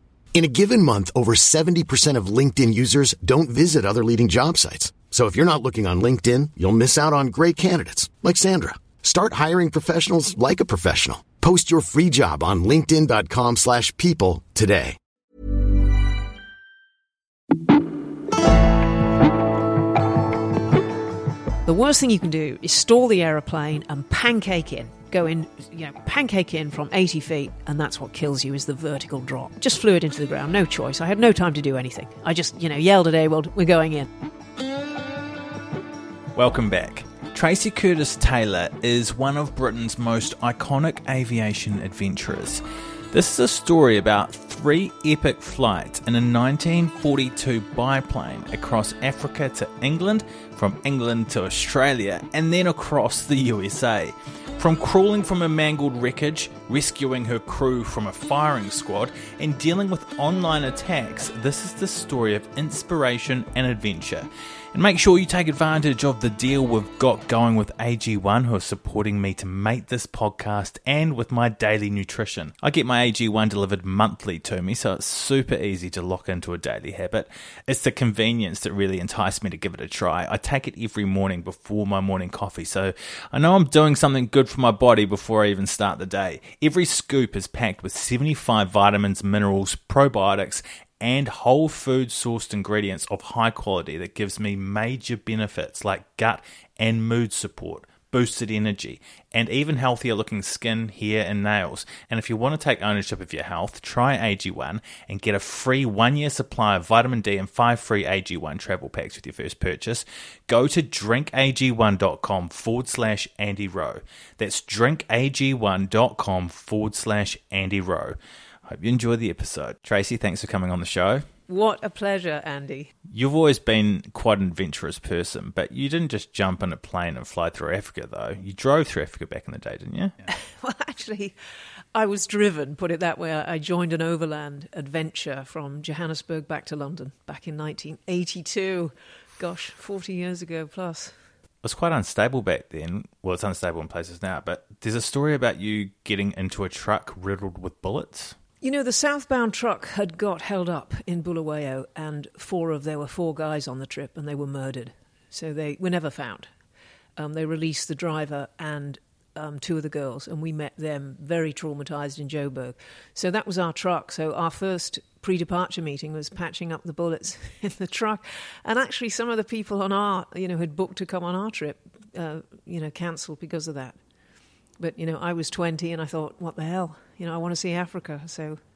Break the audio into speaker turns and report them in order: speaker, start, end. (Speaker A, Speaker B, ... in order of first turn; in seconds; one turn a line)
Speaker A: 0.3-15.0
Speaker B: 21.6-34.1
Speaker C: 36.3-121.2
Speaker B: 121.5-122.9
Speaker C: 123.1-130.1
Speaker B: 130.3-131.3
Speaker B: 131.9-141.1
Speaker C: 141.6-148.3
Speaker B: 148.6-156.5
Speaker B: 157.2-174.0
Speaker B: 174.8-178.6